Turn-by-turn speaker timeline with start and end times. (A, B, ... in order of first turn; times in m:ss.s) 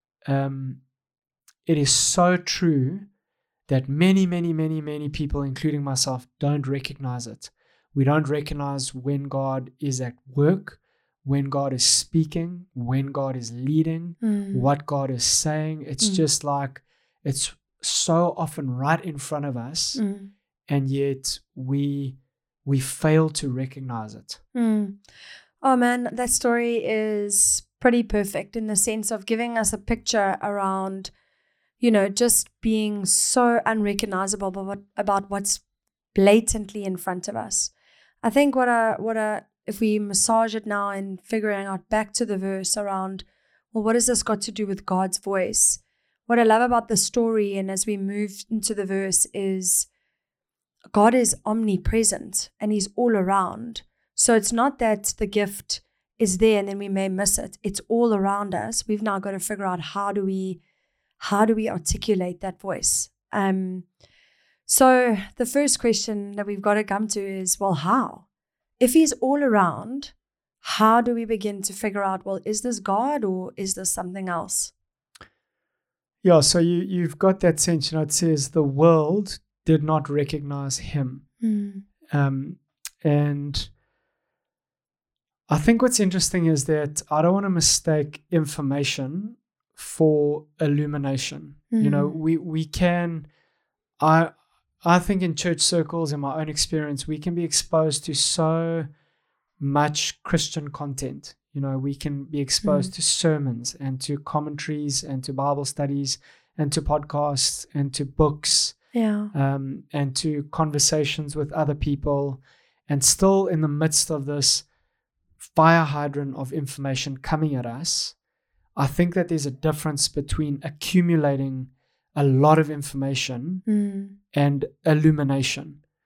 0:00.3-0:00.8 A
0:01.7-0:03.1 A
0:03.7-0:20.0 A
0:14.2-0:14.6 B
0:16.0-0:16.3 B
0:20.0-0:20.3 B
0:20.7-0:24.4 A
0:24.6-0:25.0 B
0:25.6-0:31.1 B
0:31.8-0:35.6 B
0:36.1-0:49.9 B
0:50.9-1:00.6 B
1:01.2-1:03.9 B
1:04.7-1:08.3 B
1:08.8-1:14.7 B
1:16.2-1:21.3 A
1:21.4-1:21.8 B
1:22.1-1:23.7 A
1:25.5-1:33.3 A
1:31.7-1:32.1 B
1:34.0-1:38.9 A
1:39.6-1:54.6 A
1:42.6-1:42.9 B
1:48.9-1:49.3 B
1:55.5-1:58.2 A
1:58.8-2:03.6 A
2:03.7-2:04.2 B
2:04.3-2:05.8 A